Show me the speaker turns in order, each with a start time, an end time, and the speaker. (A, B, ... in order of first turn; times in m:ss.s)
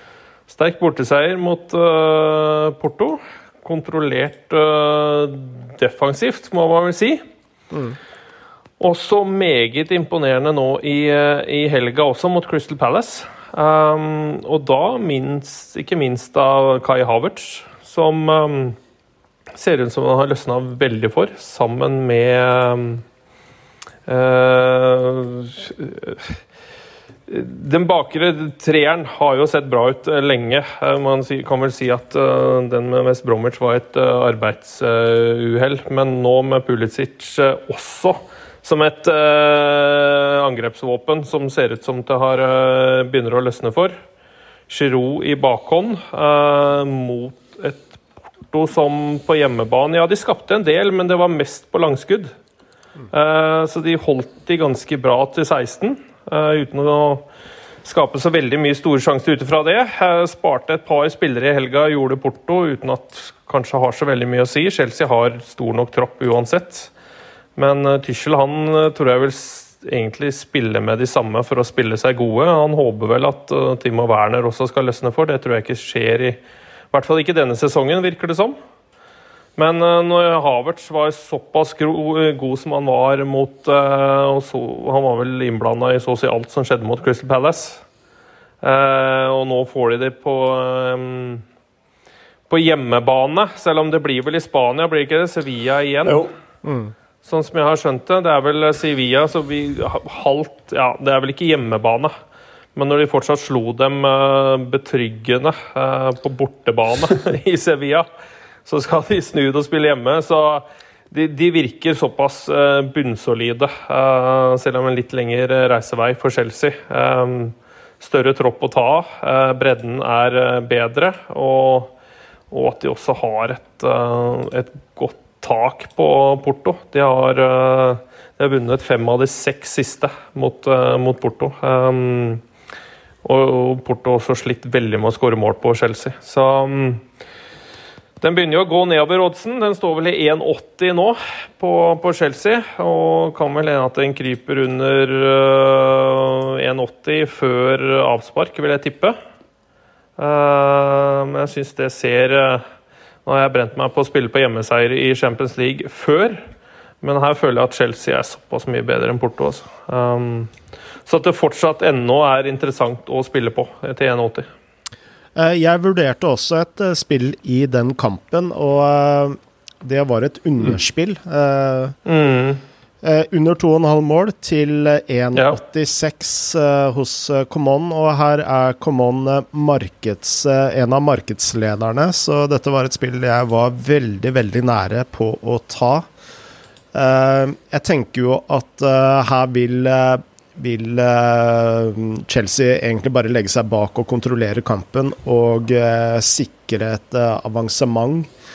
0:00.5-0:07.2 A
0:07.7-0:08.0 B
0:08.8-0:18.8 A
0:19.5-0:23.0 A
0:24.1-0:26.4 A
0:27.3-0:44.0 A
0:44.7-0:52.3 A
0:53.1-0:57.2 A
0:57.8-1:06.9 A
1:07.6-1:16.4 A
1:16.9-1:18.6 A
1:19.6-1:27.8 A
1:28.6-1:31.4 A
1:32.5-1:36.2 A
1:36.6-1:36.9 B
1:37.2-1:42.1 A
1:42.7-1:48.1 A
1:48.6-2:01.9 A
2:02.5-2:12.4 A
2:13.2-2:17.0 A
2:18.2-2:29.2 A
2:30.2-2:32.6 A
2:33.2-2:36.4 A
2:37.0-2:40.5 A
2:41.0-2:44.5 A
2:45.4-2:52.0 B
2:52.0-2:52.6 A
2:53.0-3:06.1 B
3:06.9-3:18.3 B